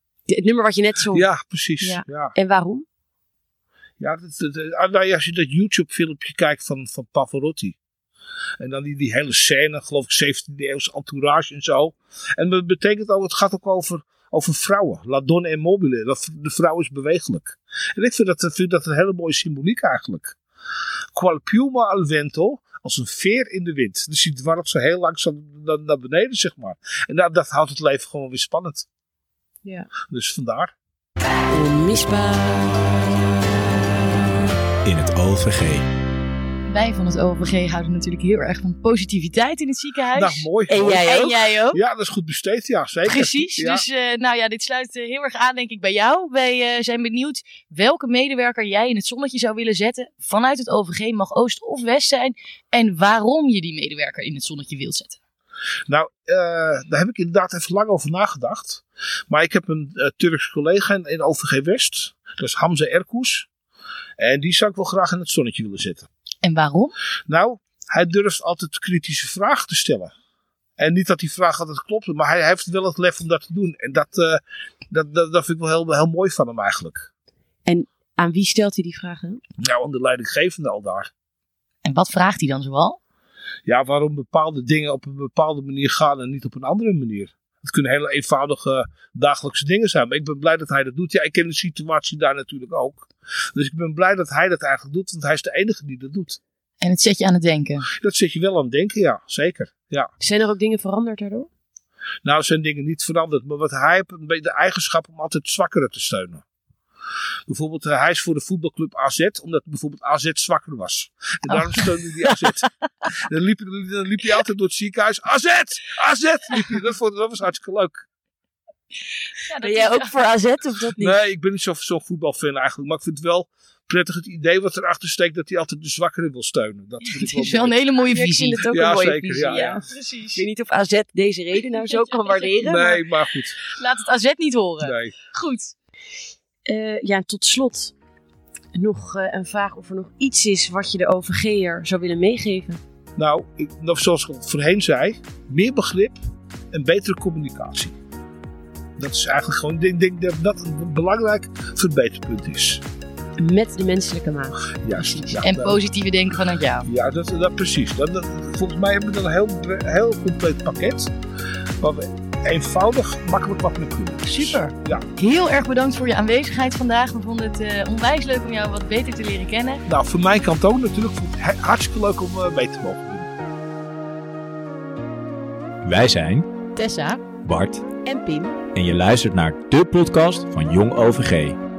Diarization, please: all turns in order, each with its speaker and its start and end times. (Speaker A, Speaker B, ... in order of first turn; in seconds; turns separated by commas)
Speaker A: 0.3-1.3, Speaker B: 1.1-2.3, Speaker A: 1.8-2.8, Speaker B: 4.0-7.8, Speaker B: 8.6-20.4, Speaker B: 21.1-28.9, Speaker A: 29.6-29.9, Speaker B: 30.0-30.7, Speaker A: 31.5-32.8, Speaker C: 34.8-35.9, Speaker D: 36.7-41.8, Speaker B: 40.1-41.1, Speaker A: 40.7-41.5, Speaker B: 41.7-43.8, Speaker D: 43.0-55.2, Speaker B: 55.9-63.5, Speaker B: 64.2-66.1, Speaker D: 66.4-67.0, Speaker B: 67.3-70.1, Speaker B: 70.8-77.1, Speaker A: 77.7-79.4, Speaker B: 79.6-81.1, Speaker D: 81.8-83.0, Speaker B: 83.7-96.4, Speaker D: 96.8-97.9, Speaker B: 97.8-100.1, Speaker A: 100.2-101.5, Speaker B: 102.2-106.4, Speaker B: 107.5-118.0, Speaker D: 119.4-120.1, Speaker A: 119.6-121.1, Speaker B: 121.0-127.8, Speaker D: 127.0-128.7, Speaker A: 128.1-132.8, Speaker B: 128.7-129.8, Speaker D: 129.8-130.4, Speaker D: 131.7-133.0, Speaker B: 132.6-133.6, Speaker D: 133.7-135.7, Speaker B: 134.8-135.1, Speaker A: 136.7-137.9, Speaker A: 138.7-142.8, Speaker B: 143.2-146.2, Speaker B: 146.7-147.9, Speaker B: 149.0-152.8, Speaker A: 153.4-154.6, Speaker B: 154.8-155.8, Speaker D: 154.9-156.9, Speaker B: 156.8-161.1, Speaker B: 161.8-165.1, Speaker D: 164.3-169.8, Speaker B: 169.8-173.3, Speaker C: 175.8-176.5, Speaker D: 176.8-177.2, Speaker C: 177.4-177.9, Speaker A: 178.0-178.6, Speaker C: 178.7-181.6